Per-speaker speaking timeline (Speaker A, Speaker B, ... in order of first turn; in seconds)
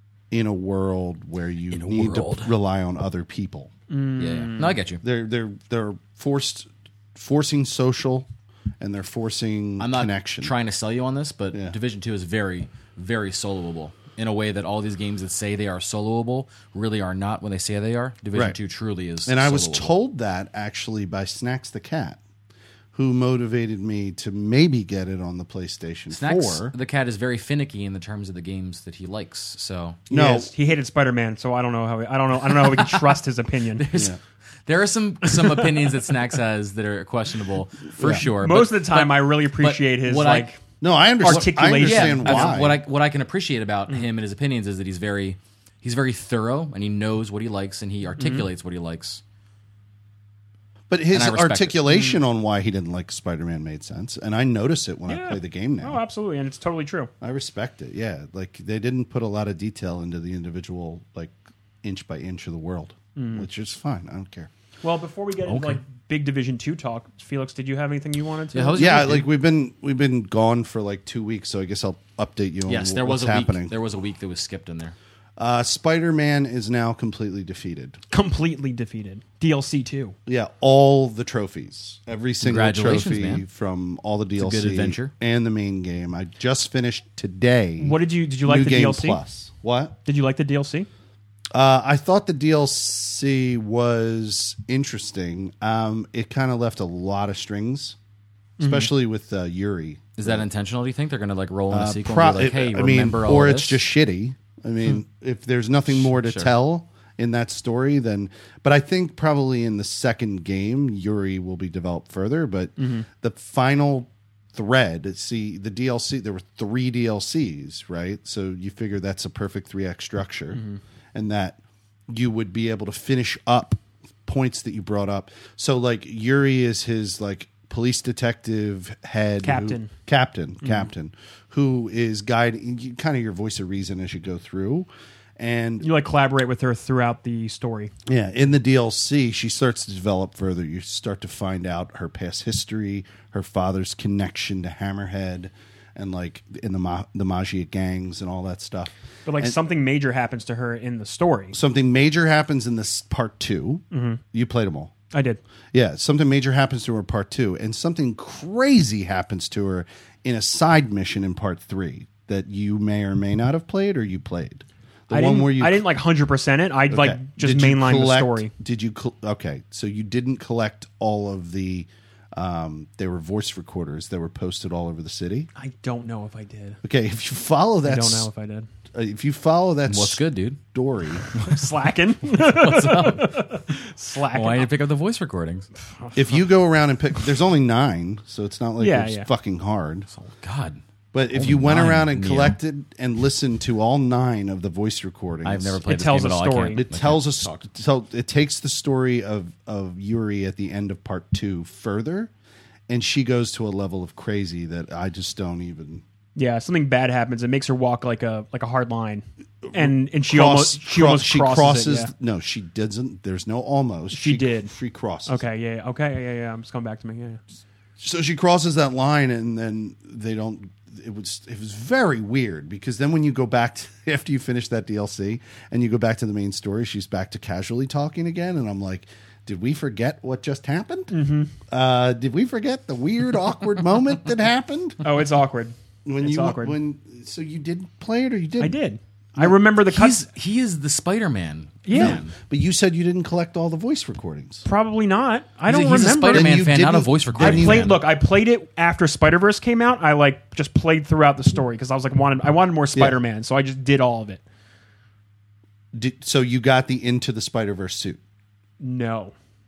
Speaker A: 0.3-3.7, 5.0-8.3, 8.8-10.5, 19.2-22.2, 22.9-26.7, 30.1-30.5, 33.9-34.2, 38.0-38.3, 40.8-42.8, 50.9-56.0, 57.2-64.5, 68.7-73.7, 75.4-78.0, 80.3-90.0, 91.5-98.0, 98.6-100.5, 101.7-120.6, 121.1-121.6, 122.1-135.8, 138.1-149.6, 151.5-154.9, 155.7-165.9, 166.9-175.5, 176.8-178.3, 178.9-181.2, 186.1-190.1, 191.1-195.8, 196.8-202.3, 202.9-206.0, 209.7-215.4, 218.0-231.1, 231.7-235.0, 236.0-238.8, 241.9-244.6, 246.3-247.9, 255.9-258.2
Speaker B: 1.7-2.5, 4.2-5.0, 9.8-19.9, 26.1-30.1, 32.5-33.1, 33.8-40.5, 41.2-49.2, 51.1-51.8, 65.5-65.8, 68.5-69.3, 72.7-74.9, 82.4-83.4, 84.3-85.1, 100.2-103.8, 105.9-106.5, 179.9-180.6, 181.2-183.6, 184.3-185.7, 190.1-192.6, 195.4-197.6, 239.8-242.3, 245.7-248.0
Speaker C: 3.9-4.7, 30.1-33.8, 38.1-40.6, 41.2-42.6, 48.2-48.5, 51.9-52.2, 55.0-57.1, 63.1-63.5, 64.8-69.1, 78.1-80.1, 87.8-89.2, 90.0-90.9, 98.6-98.9, 112.8-113.0, 120.5-120.8, 129.4-129.9, 135.8-137.9, 149.2-151.6, 153.9-154.2, 155.1-155.4, 165.1-168.5, 175.5-176.8, 177.8-178.7, 181.3-184.7, 188.8-189.3, 195.8-196.8, 206.3-212.1, 214.1-214.7, 215.2-217.4, 231.1-231.5, 235.0-236.8, 238.6-240.2, 241.8-242.2, 244.6-246.5, 247.3-254.4, 258.8-259.3